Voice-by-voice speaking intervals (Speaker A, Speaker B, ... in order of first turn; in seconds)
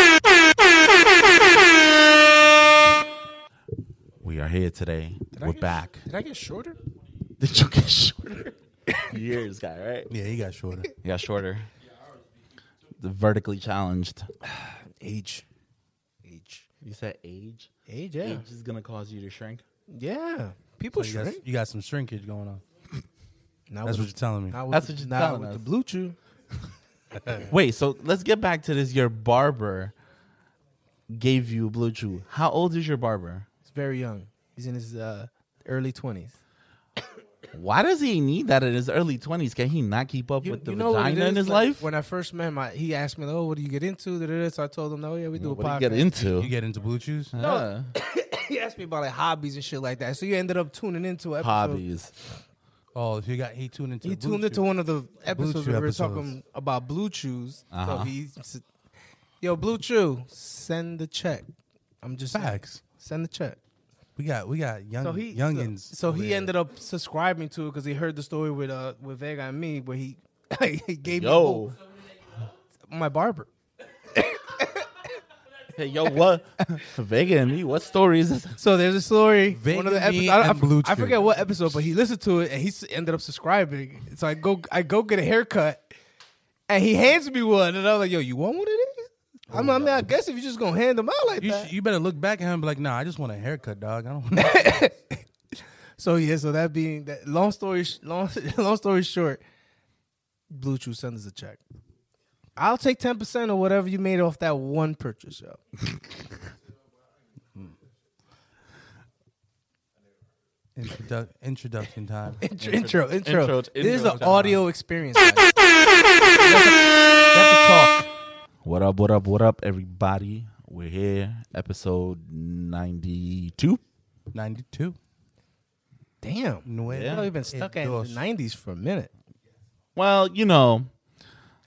Speaker A: 4.2-6.0, 7.4-8.6, 9.1-10.1, 11.0-11.7, 13.0-14.3, 16.8-19.6, 24.7-25.6, 27.5-29.9, 31.1-33.5, 37.5-41.9, 45.4-46.5, 47.3-47.9, 51.4-52.1, 57.7-58.1, 71.1-71.8, 75.7-78.6, 112.6-114.6, 118.6-123.8, 126.9-127.3, 129.9-130.9
Speaker B: 5.3-6.8, 14.4-15.5, 16.2-16.7, 17.9-18.4, 19.9-21.4, 23.7-26.2, 33.7-36.4, 40.4-46.1, 47.4-51.8, 54.0-58.6, 59.4-61.5, 62.0-63.6, 65.0-71.8, 72.9-73.5, 74.1-74.9, 78.6-85.9, 86.7-91.7, 94.4-95.2, 96.0-99.4, 100.5-101.6, 102.6-105.6, 112.4-115.5, 116.4-116.8, 126.2-129.1
Speaker C: 10.1-10.9, 20.9-22.6, 23.9-24.6, 46.3-47.3, 52.9-54.6, 55.4-56.3, 62.3-62.8, 64.2-66.5, 79.5-81.5, 89.5-90.0, 91.4-94.9, 110.8-112.4, 117.3-118.0, 124.3-125.0, 126.7-128.2